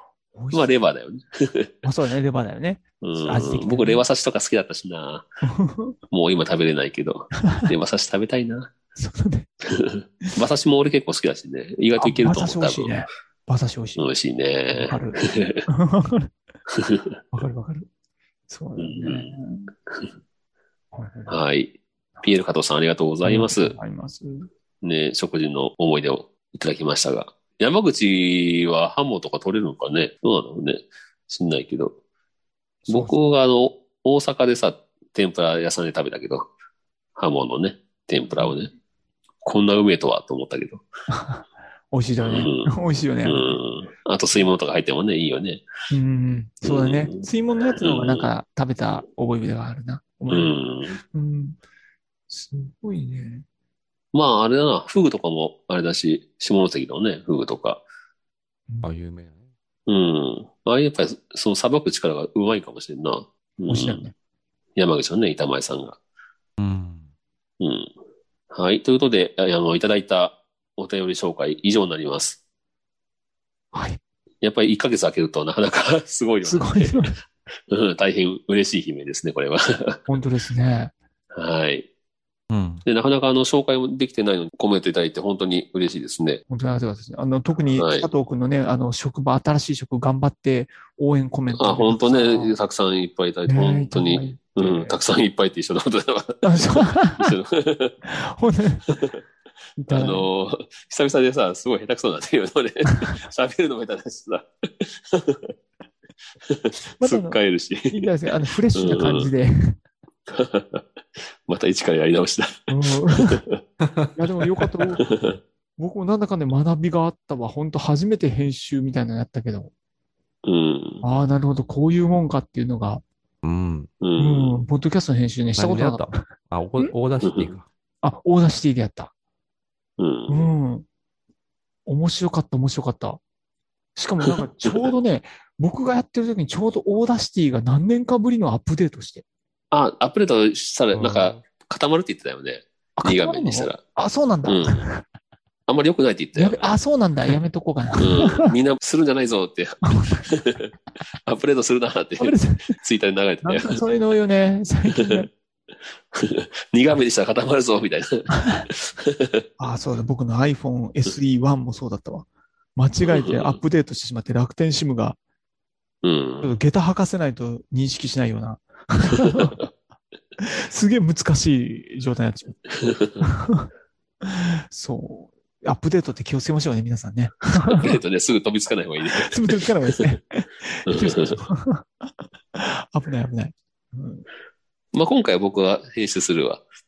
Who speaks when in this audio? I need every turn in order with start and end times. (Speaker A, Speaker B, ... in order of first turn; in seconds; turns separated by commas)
Speaker A: 0.3-0.8, Speaker B: 0.5-1.7, Speaker A: 1.8-4.0, Speaker B: 3.0-5.3, Speaker A: 5.4-5.9, Speaker B: 6.1-8.7, Speaker A: 8.9-9.5, Speaker B: 9.7-13.0, Speaker A: 12.0-14.1, Speaker B: 14.0-15.6, Speaker A: 14.7-16.3, Speaker B: 16.7-17.1, Speaker A: 17.3-17.9, Speaker A: 18.5-19.7, Speaker B: 18.8-19.3, Speaker A: 20.9-21.4, Speaker B: 21.3-23.8, Speaker A: 23.2-24.5, Speaker B: 24.8-31.9, Speaker A: 32.9-33.1, Speaker B: 32.9-36.5, Speaker B: 37.1-38.7, Speaker A: 38.3-38.6, Speaker B: 39.4-40.8, Speaker A: 41.1-43.6, Speaker B: 42.2-42.7, Speaker B: 43.2-45.6, Speaker A: 45.9-51.6, Speaker B: 46.6-48.3, Speaker B: 50.3-51.0, Speaker A: 52.3-53.4, Speaker B: 54.1-57.8, Speaker C: 58.8-59.4, Speaker B: 59.9-64.0, Speaker A: 63.7-64.1, Speaker B: 64.8-66.0, Speaker C: 66.6-67.0, Speaker B: 67.6-67.9, Speaker B: 68.5-72.4, Speaker A: 73.7-74.0, Speaker B: 74.4-77.1, Speaker A: 76.4-77.2, Speaker B: 77.7-80.2, Speaker A: 80.1-80.9, Speaker B: 81.3-81.9, Speaker C: 82.5-82.8, Speaker B: 82.8-86.4, Speaker A: 86.5-92.5, Speaker B: 87.7-88.1, Speaker B: 91.5-98.0, Speaker A: 93.5-95.0, Speaker A: 96.4-97.3, Speaker A: 98.0-98.8, Speaker B: 98.9-99.2, Speaker A: 99.8-100.3, Speaker B: 99.9-105.5, Speaker B: 106.5-109.3, Speaker A: 107.0-107.4, Speaker A: 107.9-109.8, Speaker B: 110.3-113.6, Speaker A: 112.7-113.4, Speaker C: 113.8-114.1, Speaker A: 114.2-115.0, Speaker B: 114.9-115.4, Speaker A: 115.8-119.7, Speaker B: 120.4-121.0, Speaker A: 121.0-123.0, Speaker C: 123.4-123.9, Speaker B: 124.0-124.6, Speaker A: 124.2-126.2, Speaker C: 125.6-127.7, Speaker B: 127.2-127.5, Speaker A: 128.0-129.1, Speaker B: 130.0-130.5, Speaker A: 130.3-130.8, Speaker A: 131.9-133.2, Speaker A: 133.9-139.2, Speaker B: 134.2-134.8, Speaker B: 139.7-143.8, Speaker C: 140.9-141.4, Speaker A: 143.0-145.0, Speaker B: 144.4-144.8, Speaker B: 145.7-146.7, Speaker A: 146.3-148.5, Speaker B: 147.9-150.7, Speaker A: 149.8-150.2, Speaker B: 151.2-153.8, Speaker A: 152.2-152.7, Speaker A: 153.4-155.3, Speaker B: 154.9-155.2, Speaker B: 156.1-159.4, Speaker A: 158.3-158.6, Speaker A: 159.6-165.2, Speaker B: 163.0-163.6, Speaker B: 166.0-166.5, Speaker A: 166.4-169.6, Speaker B: 169.3-169.7, Speaker A: 170.4-172.6, Speaker B: 172.7-173.2, Speaker A: 173.2-173.7, Speaker A: 174.2-177.9, Speaker B: 177.7-180.0, Speaker A: 179.2-184.2, Speaker B: 180.9-181.4, Speaker B: 184.9-186.6